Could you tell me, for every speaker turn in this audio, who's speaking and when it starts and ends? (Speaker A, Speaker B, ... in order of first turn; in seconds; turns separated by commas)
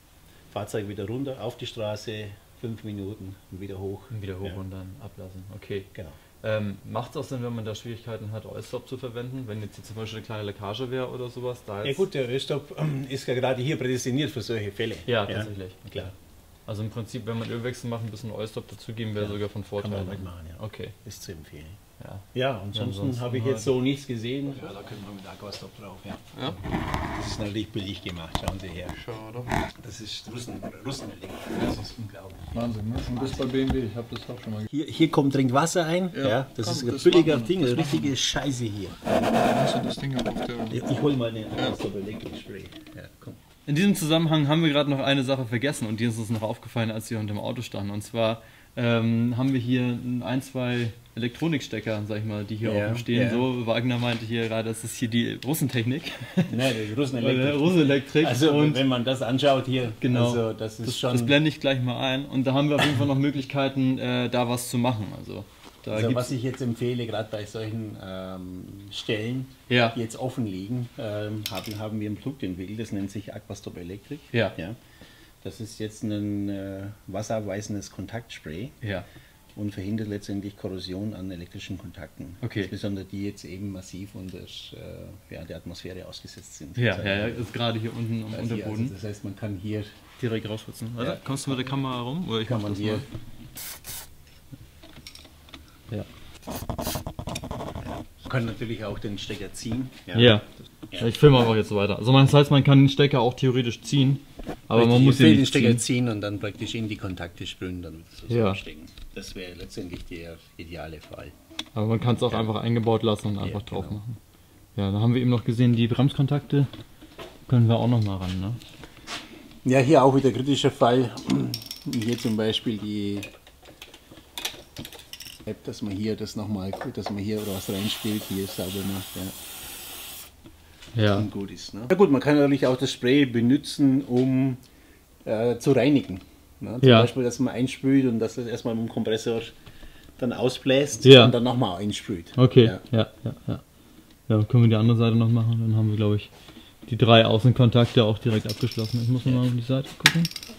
Speaker A: 0.5-4.6, Speaker B: 4.1-5.9, Speaker B: 6.4-12.1, Speaker A: 11.8-16.1, Speaker B: 15.1-16.1, Speaker B: 16.7-20.9, Speaker A: 19.1-21.8, Speaker B: 22.0-23.7, Speaker A: 22.3-29.1, Speaker C: 29.0-29.6, Speaker A: 29.7-33.5, Speaker C: 32.5-34.6, Speaker B: 33.7-34.5, Speaker A: 34.7-39.5, Speaker C: 36.2-37.9, Speaker C: 39.3-40.8, Speaker A: 40.7-43.4, Speaker B: 43.6-56.5, Speaker A: 52.6-53.5, Speaker A: 56.5-61.4, Speaker B: 57.2-58.8, Speaker B: 60.0-66.3, Speaker A: 65.9-74.8, Speaker B: 69.7-70.0, Speaker B: 74.3-74.6, Speaker A: 75.4-78.8, Speaker A: 79.5-87.5, Speaker B: 82.4-82.7, Speaker B: 86.8-88.9, Speaker A: 88.3-90.0, Speaker B: 90.2-93.0, Speaker A: 91.0-91.5, Speaker A: 92.4-93.1, Speaker A: 98.2-101.1, Speaker B: 100.1-105.8, Speaker A: 104.7-111.3, Speaker B: 108.3-108.6, Speaker B: 111.7-114.2, Speaker A: 112.0-112.5, Speaker A: 113.4-114.0, Speaker B: 114.8-116.7, Speaker B: 117.5-118.6, Speaker A: 119.6-123.3, Speaker A: 125.5-129.3, Speaker B: 130.9-131.3, Speaker A: 131.1-134.6, Speaker A: 135.2-139.5, Speaker B: 136.8-137.1, Speaker A: 140.2-142.8, Speaker B: 141.0-141.3, Speaker B: 142.3-143.6, Speaker B: 144.3-146.3, Speaker B: 146.9-150.3